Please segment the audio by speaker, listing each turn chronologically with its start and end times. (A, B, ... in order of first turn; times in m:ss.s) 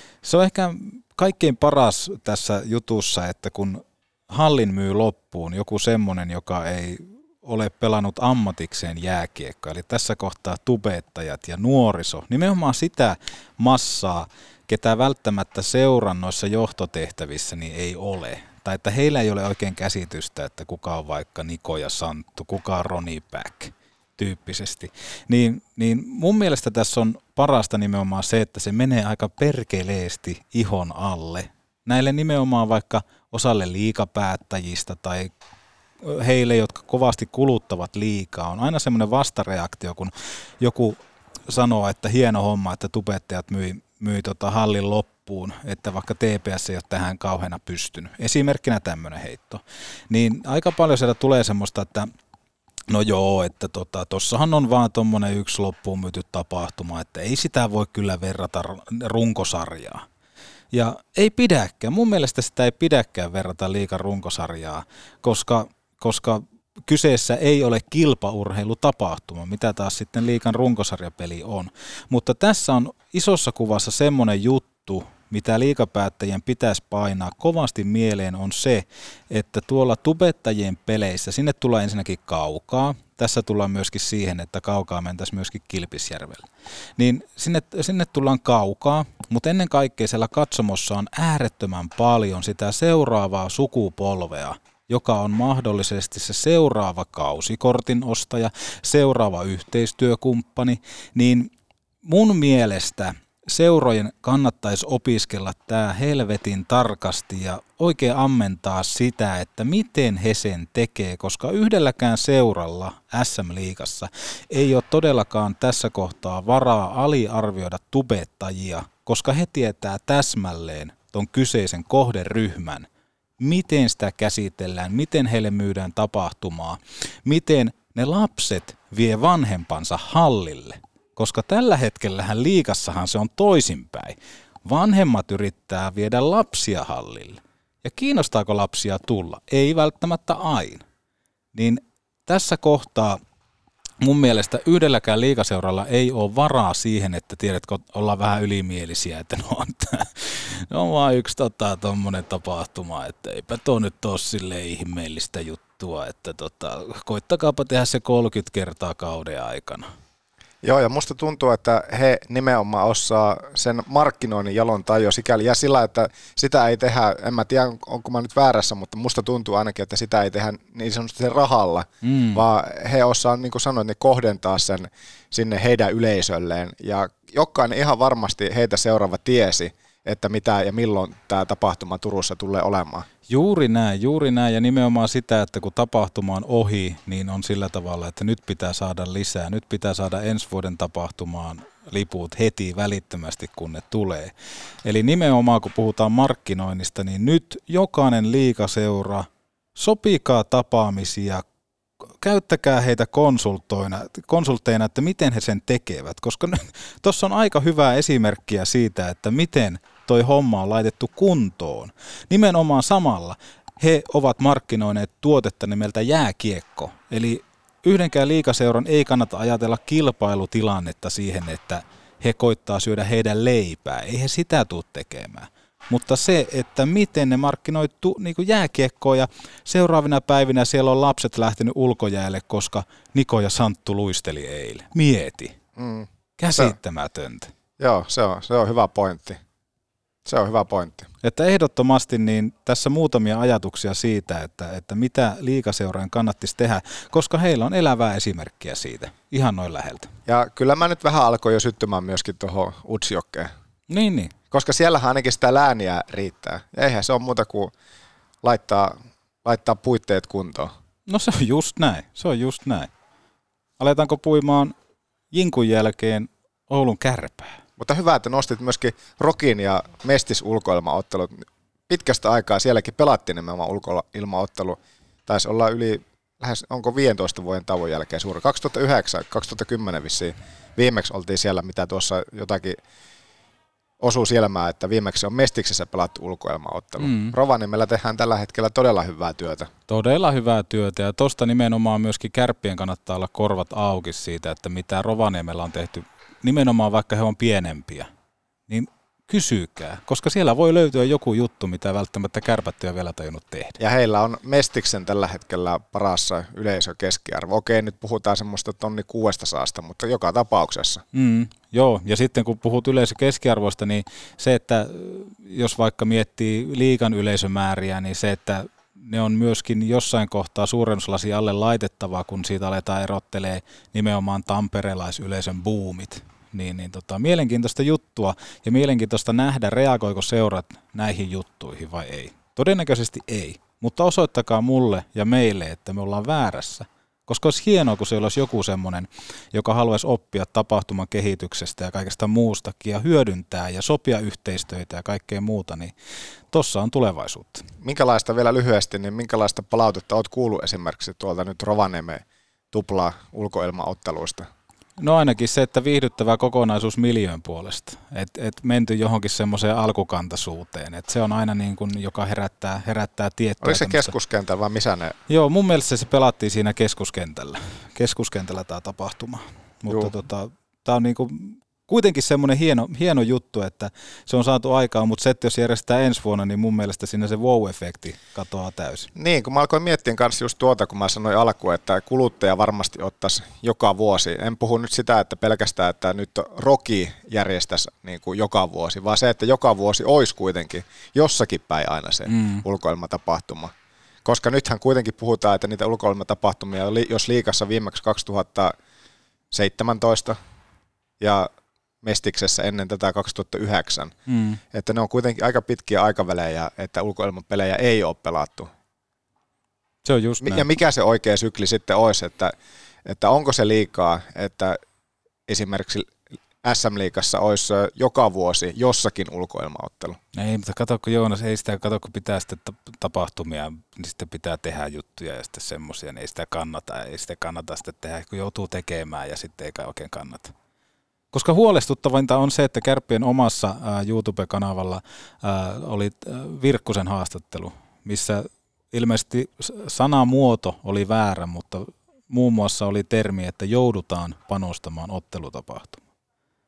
0:00.2-0:35.3 A
0:36.0-0:52.1 A
0:52.9-1:00.0 A
1:00.7-1:41.5 A
1:42.0-2:02.9 A
2:03.4-2:20.8 A
2:21.5-2:23.2 A
2:24.0-2:39.9 A
2:40.6-3:03.1 B
2:52.0-2:52.4 A
3:03.3-3:14.3 A
3:14.8-3:21.4 A
3:22.2-3:55.6 A
3:55.8-3:56.8 B
3:56.4-3:57.5 A
3:57.8-3:59.4 B
4:00.2-4:01.1 B
4:01.2-4:10.1 A
4:10.3-4:13.5 B
4:13.9-4:14.3 A
4:14.5-4:17.7 B
4:18.4-4:20.7 B
4:21.1-4:22.9 A
4:23.8-4:24.7 A
4:25.3-4:27.6 A
4:27.8-4:42.8 B
4:44.0-4:49.7 B
4:47.0-4:47.3 A
4:49.9-4:58.1 A
4:58.7-5:03.8 A
5:03.8-5:11.0 B
5:11.1-5:45.9 A
5:46.5-5:47.6 A
5:47.8-5:54.5 B
5:55.0-6:04.1 A
6:03.6-6:05.2 B
6:05.3-6:19.1 A
6:09.9-6:10.1 B
6:19.2-6:33.7 B
6:32.3-6:32.6 A
6:34.2-6:38.7 B
6:39.5-6:40.4 B
6:41.2-6:41.5 B
6:42.0-6:44.1 B
6:44.3-6:44.6 A
6:44.7-6:48.7 B
6:50.0-6:50.7 A
6:50.4-6:52.5 B
6:53.0-6:54.8 B
6:55.5-7:00.2 B
7:00.3-7:10.5 A
7:11.3-7:26.0 A